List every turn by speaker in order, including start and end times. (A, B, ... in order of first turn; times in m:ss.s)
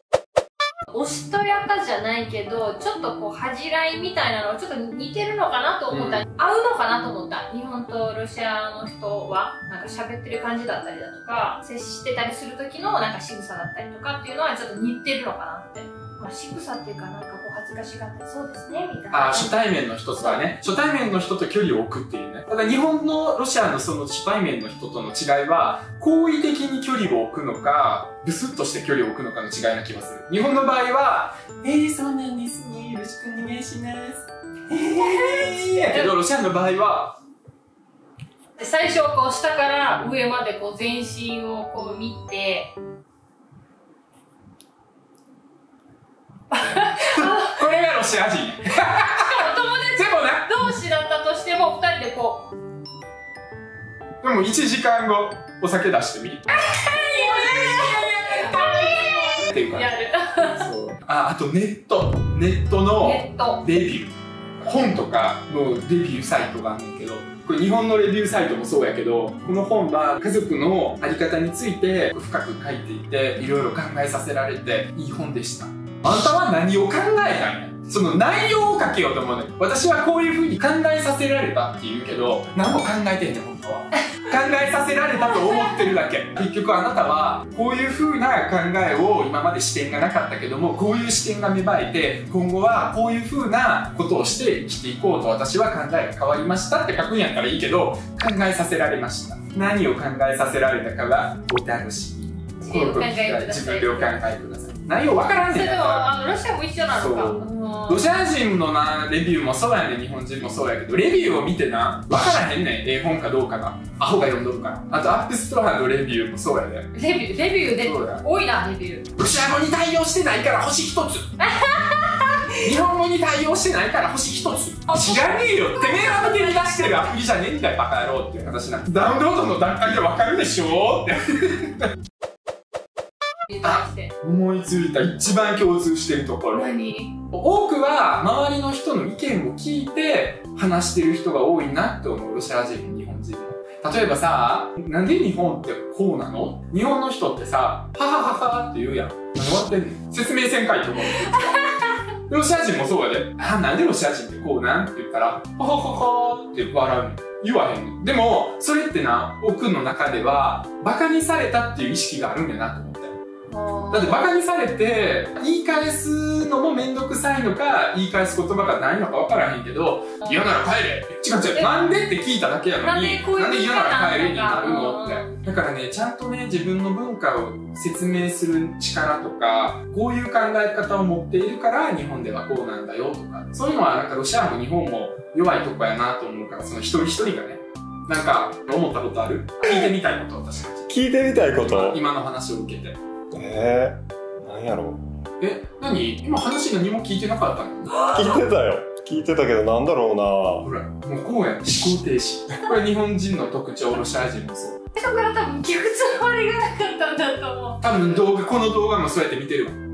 0:00.9-0:20.5 A
0:05.9-0:06.2 B
0:19.1-0:37.2 B
0:34.9-0:36.1 A
0:38.6-0:42.7 A
0:46.5-0:47.6 A
0:47.0-0:50.7 B
0:49.0-0:52.5 A
0:54.2-0:56.4 B
0:56.5-1:00.7 A
0:57.9-1:46.1 B
1:03.0-1:03.6 A
1:42.6-1:44.2 A
1:45.3-1:48.2 A
1:46.9-1:56.9 B
1:56.9-1:59.1 A
1:57.7-1:58.2 B
1:59.2-2:01.3 B
2:01.4-2:02.7 A
2:02.6-2:11.9 B
2:04.9-2:07.2 A
2:13.5-2:14.1 A
2:13.6-2:16.8 B
2:16.5-2:17.1 A
2:17.3-2:31.7 B
2:31.3-2:31.9 A
2:32.3-2:43.1 B
2:43.5-2:44.3 A
2:43.9-3:10.9 B
2:51.4-2:51.8 A
2:52.8-2:55.3 A
3:10.9-3:12.0 C
3:11.5-3:13.0 B
3:13.3-3:15.0 C
3:15.4-3:18.0 B
3:17.9-3:18.4 A
3:18.1-3:20.6 C
3:20.6-3:24.8 B
3:24.9-3:27.9 A
3:27.8-3:29.8 B